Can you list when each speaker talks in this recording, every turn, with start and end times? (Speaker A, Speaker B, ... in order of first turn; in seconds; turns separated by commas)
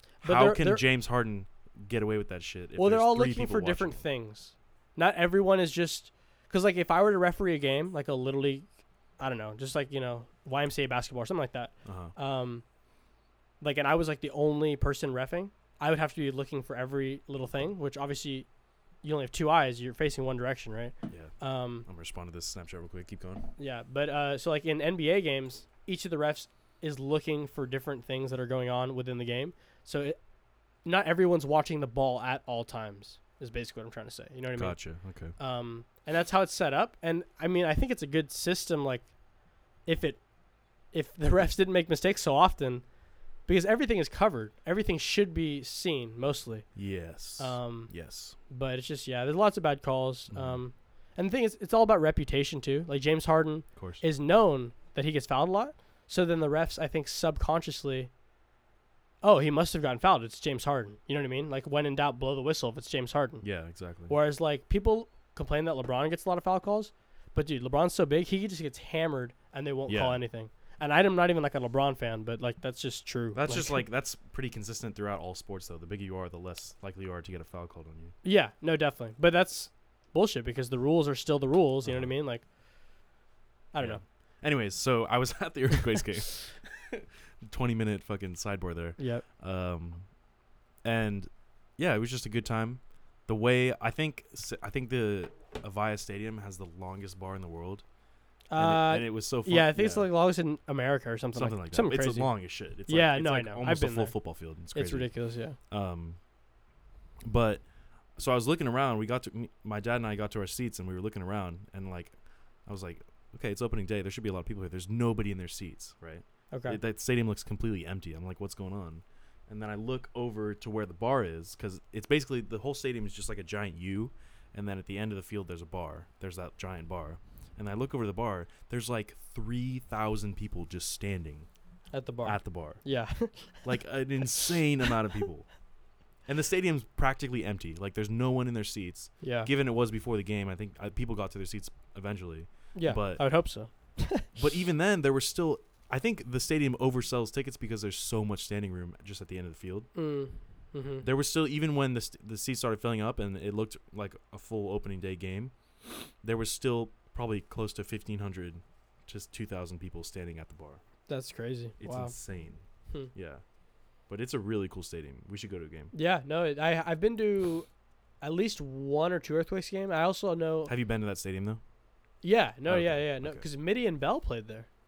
Speaker A: 0.2-0.8, Speaker B: 0.2-4.0, Speaker A: 2.8-8.7, Speaker A: 9.2-12.6, Speaker B: 11.8-12.1, Speaker A: 13.6-18.5, Speaker A: 19.0-21.9, Speaker B: 21.9-23.5, Speaker A: 23.6-30.2, Speaker A: 30.8-34.8, Speaker B: 34.5-35.4, Speaker A: 35.4-39.1, Speaker A: 39.9-40.2, Speaker A: 40.9-42.9, Speaker A: 43.5-46.7, Speaker B: 46.8-48.4, Speaker A: 47.4-47.9, Speaker A: 48.5-58.1, Speaker B: 50.3-50.6, Speaker B: 53.8-54.0, Speaker A: 59.2-63.4, Speaker B: 63.4-64.1, Speaker A: 64.1-73.8, Speaker B: 69.9-70.2, Speaker B: 73.3-78.2, Speaker A: 78.2-82.4, Speaker B: 81.8-82.1, Speaker A: 83.7-84.0, Speaker B: 83.8-90.1, Speaker A: 89.0-89.2, Speaker B: 90.8-97.8, Speaker A: 98.5-102.3, Speaker B: 98.6-100.1, Speaker B: 101.3-105.1, Speaker A: 102.9-104.2, Speaker A: 104.7-105.6, Speaker B: 105.7-106.2, Speaker B: 107.2-107.6, Speaker B: 108.2-112.2, Speaker B: 112.7-131.5, Speaker A: 116.5-116.8, Speaker A: 131.9-133.7, Speaker B: 132.2-132.8, Speaker B: 133.6-135.5, Speaker B: 136.3-143.2, Speaker A: 139.2-139.5, Speaker A: 142.8-144.3, Speaker B: 144.3-149.9, Speaker A: 149.9-151.1, Speaker B: 151.0-155.5, Speaker B: 156.2-160.8, Speaker A: 161.1-162.2, Speaker B: 161.8-162.6, Speaker B: 163.1-163.4, Speaker B: 164.1-165.9, Speaker A: 165.9-167.7, Speaker A: 168.2-170.7, Speaker B: 170.7-171.6, Speaker A: 172.2-174.7, Speaker B: 172.7-173.4